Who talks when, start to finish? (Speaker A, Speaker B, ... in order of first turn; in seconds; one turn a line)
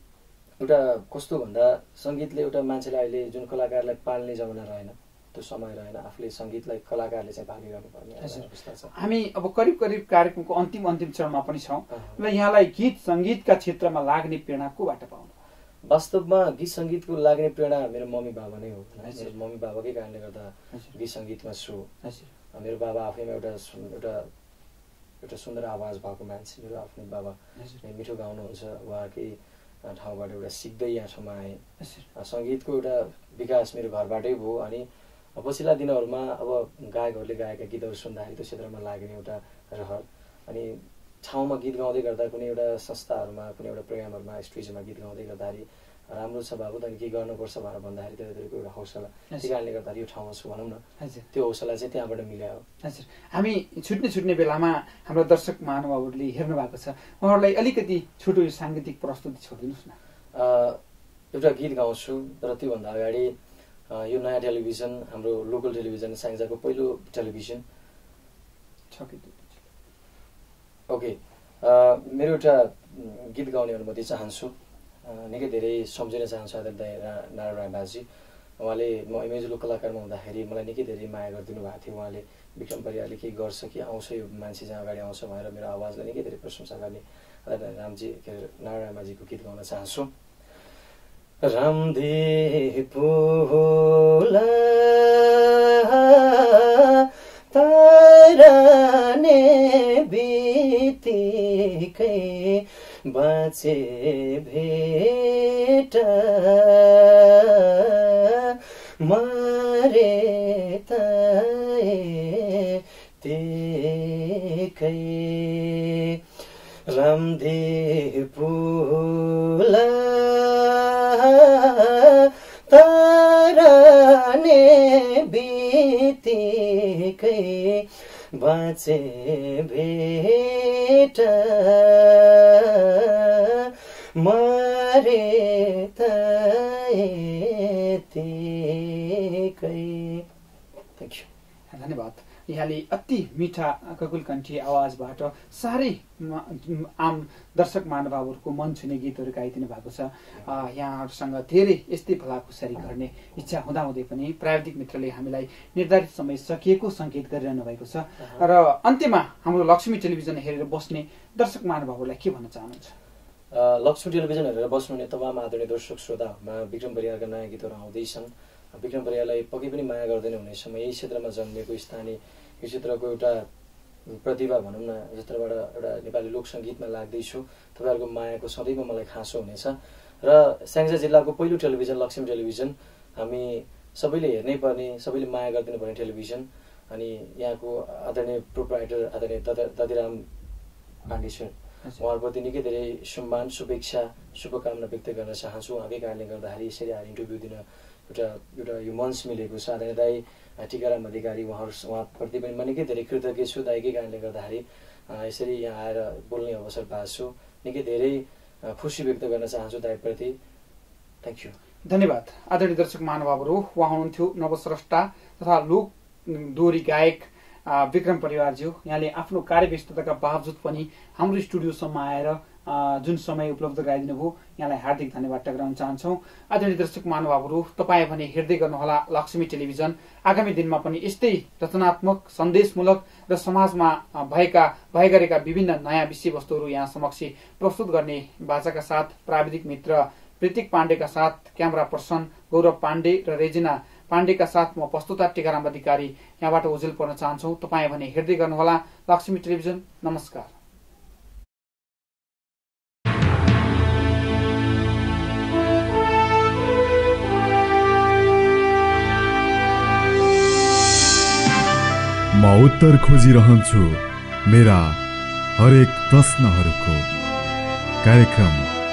Speaker A: 0.6-8.9
Speaker B: 8.2-15.3
Speaker A: 11.9-12.2
Speaker A: 15.9-21.9
Speaker B: 19.0-19.3
Speaker B: 22.0-22.3
Speaker A: 22.5-24.3
Speaker A: 25.2-31.6
Speaker B: 31.8-32.1
Speaker A: 32.1-52.6
Speaker B: 52.8-60.0
Speaker A: 60.4-60.8
Speaker A: 61.3-63.3
Speaker A: 63.9-67.6
Speaker B: 68.9-69.5
Speaker A: 70.9-78.0
Speaker A: 78.6-90.1
Speaker A: 91.4-116.2
Speaker A: 116.9-140.3
Speaker A: 141.0-141.3
Speaker B: 141.7-162.9
Speaker A: 158.2-158.5
Speaker A: 163.5-173.5
Speaker A: 174.1-190.2
Speaker A: 191.1-210.4
Speaker A: 211.2-211.6
Speaker B: 211.9-250.5
Speaker C: 262.3-265.0
Speaker C: 265.6-267.1
Speaker C: 268.0-268.7